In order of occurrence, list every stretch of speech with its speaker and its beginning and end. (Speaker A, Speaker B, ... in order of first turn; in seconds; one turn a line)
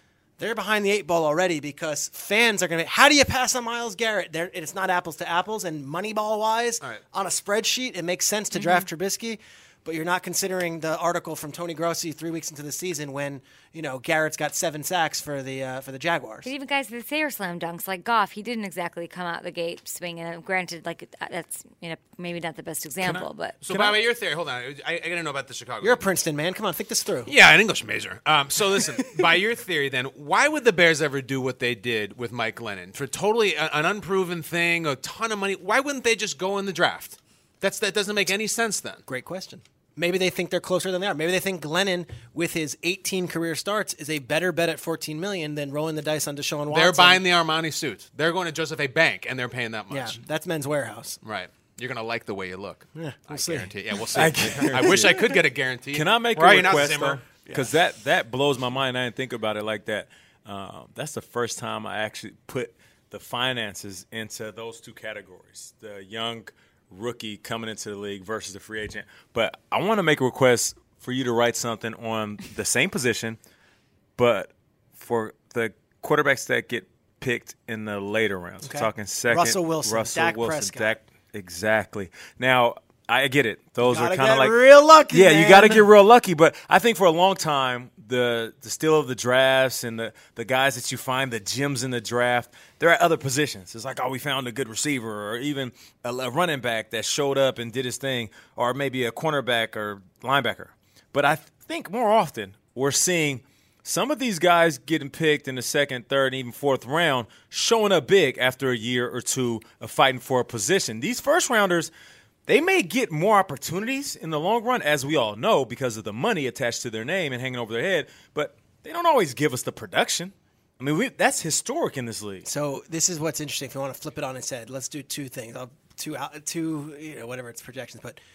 Speaker A: 0.4-16.5
Speaker B: 8.5-8.9
Speaker B: 16.4-23.6
Speaker C: 23.0-24.0
Speaker D: 23.6-26.0
Speaker A: 25.8-27.3
Speaker D: 27.3-39.0
Speaker A: 39.1-47.2
Speaker D: 46.7-50.2
Speaker A: 49.9-51.2
Speaker D: 51.2-57.2
Speaker A: 53.0-53.7
Speaker C: 54.1-55.3
Speaker A: 54.5-55.2
Speaker C: 55.9-73.4
Speaker C: 74.2-111.9
Speaker A: 78.6-81.0
Speaker A: 83.8-85.8
Speaker C: 112.5-122.5
Speaker A: 122.4-128.2